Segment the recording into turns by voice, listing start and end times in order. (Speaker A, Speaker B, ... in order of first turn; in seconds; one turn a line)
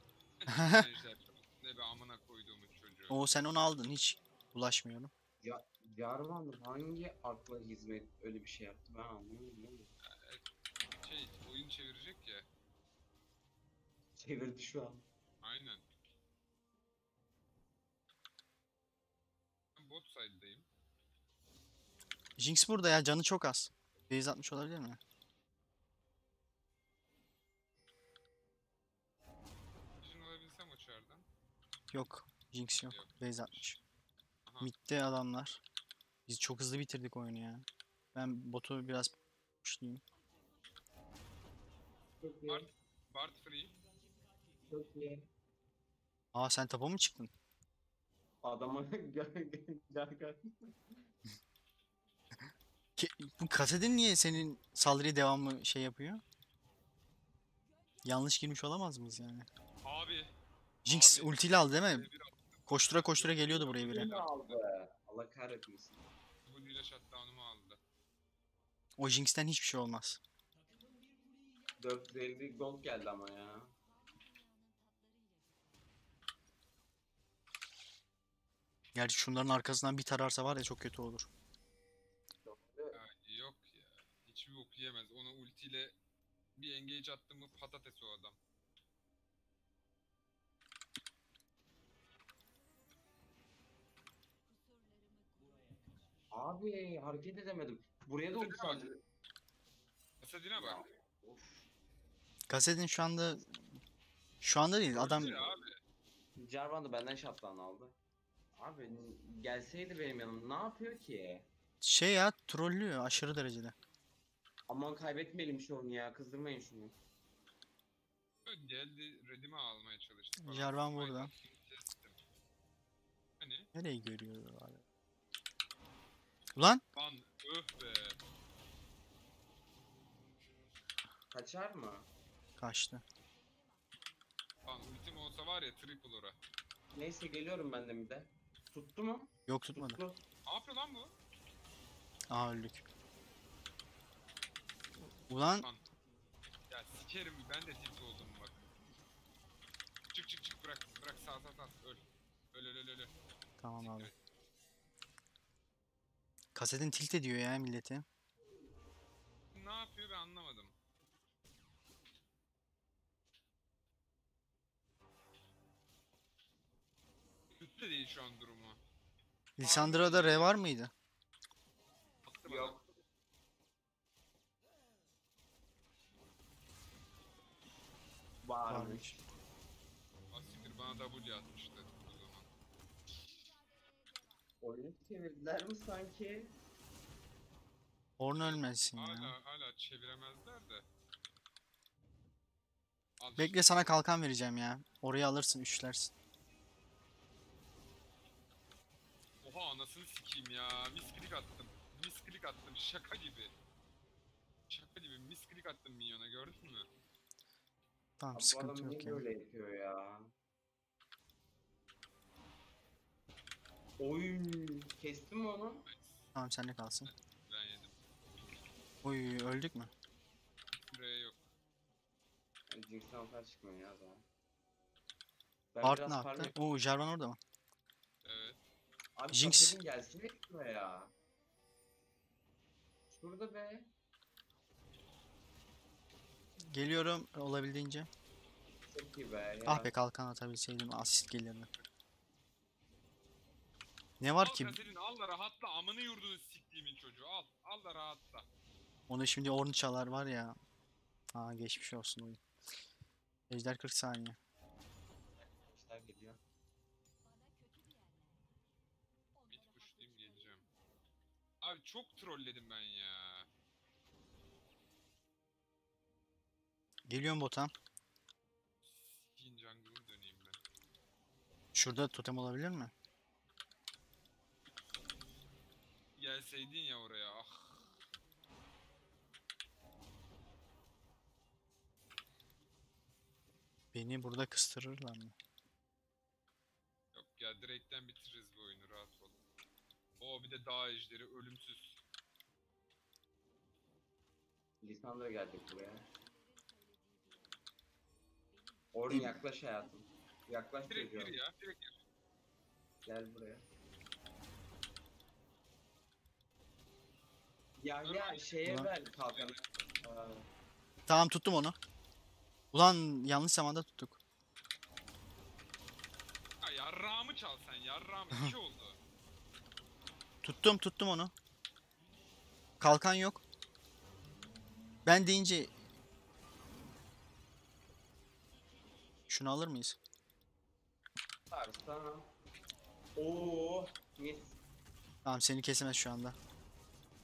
Speaker A: 0.4-3.2
Speaker B: 0.5-0.9
Speaker B: 3.1-5.1
Speaker C: 5.4-9.9
Speaker A: 10.0-10.4
Speaker A: 11.0-12.5
Speaker C: 14.1-15.0
Speaker A: 15.4-15.8
Speaker A: 19.8-20.7
Speaker B: 22.4-25.0
Speaker A: 30.0-31.3
Speaker B: 31.9-33.8
Speaker A: 32.9-33.7
Speaker A: 34.5-34.7
Speaker B: 34.6-35.6
Speaker B: 36.3-40.0
Speaker C: 42.2-42.7
Speaker A: 42.5-43.8
Speaker C: 44.7-45.3
Speaker B: 46.3-47.3
Speaker C: 48.4-50.9
Speaker B: 53.0-56.2
Speaker B: 58.0-59.5
Speaker A: 59.8-64.6
Speaker B: 60.9-62.1
Speaker B: 62.7-64.1
Speaker C: 63.8-66.0
Speaker A: 66.5-67.8
Speaker B: 69.0-70.2
Speaker C: 71.8-73.7
Speaker B: 78.9-81.3
Speaker C: 82.4-83.0
Speaker A: 82.9-85.9
Speaker A: 86.5-88.4
Speaker C: 96.3-99.0
Speaker A: 98.4-98.9
Speaker A: 100.2-100.8
Speaker C: 100.5-101.7
Speaker B: 102.5-103.5
Speaker B: 104.4-105.4
Speaker A: 104.9-105.8
Speaker C: 105.1-105.5
Speaker C: 106.4-108.0
Speaker C: 108.5-111.5
Speaker B: 111.8-113.7
Speaker C: 114.7-117.0
Speaker A: 118.4-122.2
Speaker B: 120.4-121.3
Speaker A: 123.4-123.7
Speaker B: 123.7-124.8
Speaker B: 126.5-126.8
Speaker A: 126.9-128.2
Speaker C: 131.3-132.1
Speaker B: 132.6-133.0
Speaker A: 134.7-136.4
Speaker C: 136.9-140.2
Speaker B: 139.5-140.0
Speaker A: 140.4-141.1
Speaker B: 142.3-142.8
Speaker B: 145.3-145.7
Speaker A: 146.7-148.7
Speaker A: 150.1-153.1
Speaker B: 153.6-154.1
Speaker A: 153.8-154.1
Speaker B: 156.5-158.0
Speaker A: 159.5-160.8
Speaker A: 167.6-168.8
Speaker B: 169.6-170.9
Speaker A: 169.6-170.5
Speaker A: 172.2-172.8
Speaker C: 172.4-173.0
Speaker C: 178.4-179.2
Speaker B: 178.7-179.2
Speaker A: 180.3-182.5
Speaker C: 184.6-186.6
Speaker B: 188.2-189.3
Speaker A: 188.4-190.8
Speaker A: 193.2-193.9
Speaker B: 193.4-196.1
Speaker A: 199.4-203.5
Speaker A: 204.7-206.9
Speaker B: 208.2-209.2
Speaker C: 208.3-210.3
Speaker C: 214.0-215.8
Speaker A: 215.9-216.3
Speaker B: 216.3-217.1
Speaker A: 217.0-217.9
Speaker B: 219.0-219.9
Speaker A: 220.8-221.5
Speaker C: 222.7-224.2
Speaker C: 225.7-226.5
Speaker B: 225.8-227.4
Speaker A: 228.2-228.6
Speaker C: 229.2-231.1
Speaker B: 229.3-229.8
Speaker C: 233.1-233.9
Speaker B: 236.7-238.1
Speaker C: 238.9-239.9
Speaker B: 239.7-241.7
Speaker B: 244.2-244.8
Speaker A: 244.4-248.5
Speaker B: 249.1-250.6
Speaker B: 251.3-252.4
Speaker B: 253.5-254.4
Speaker C: 255.4-256.4
Speaker A: 259.5-260.6
Speaker A: 261.6-263.5
Speaker B: 267.1-267.7
Speaker A: 268.8-270.6
Speaker B: 271.7-272.9
Speaker A: 276.2-278.0
Speaker B: 283.9-285.3
Speaker A: 287.1-289.4
Speaker A: 290.2-292.0
Speaker C: 294.8-296.1
Speaker C: 298.9-301.3
Speaker B: 299.1-299.4
Speaker A: 300.9-302.0
Speaker C: 303.0-303.6
Speaker C: 307.8-310.5
Speaker A: 308.0-309.6
Speaker B: 308.6-308.9
Speaker B: 311.1-311.8
Speaker B: 312.7-314.2
Speaker A: 316.6-319.0
Speaker B: 320.4-321.3
Speaker B: 322.8-323.4
Speaker B: 325.1-325.7
Speaker B: 329.3-330.0
Speaker C: 331.5-332.3
Speaker C: 333.1-334.6
Speaker B: 335.2-336.4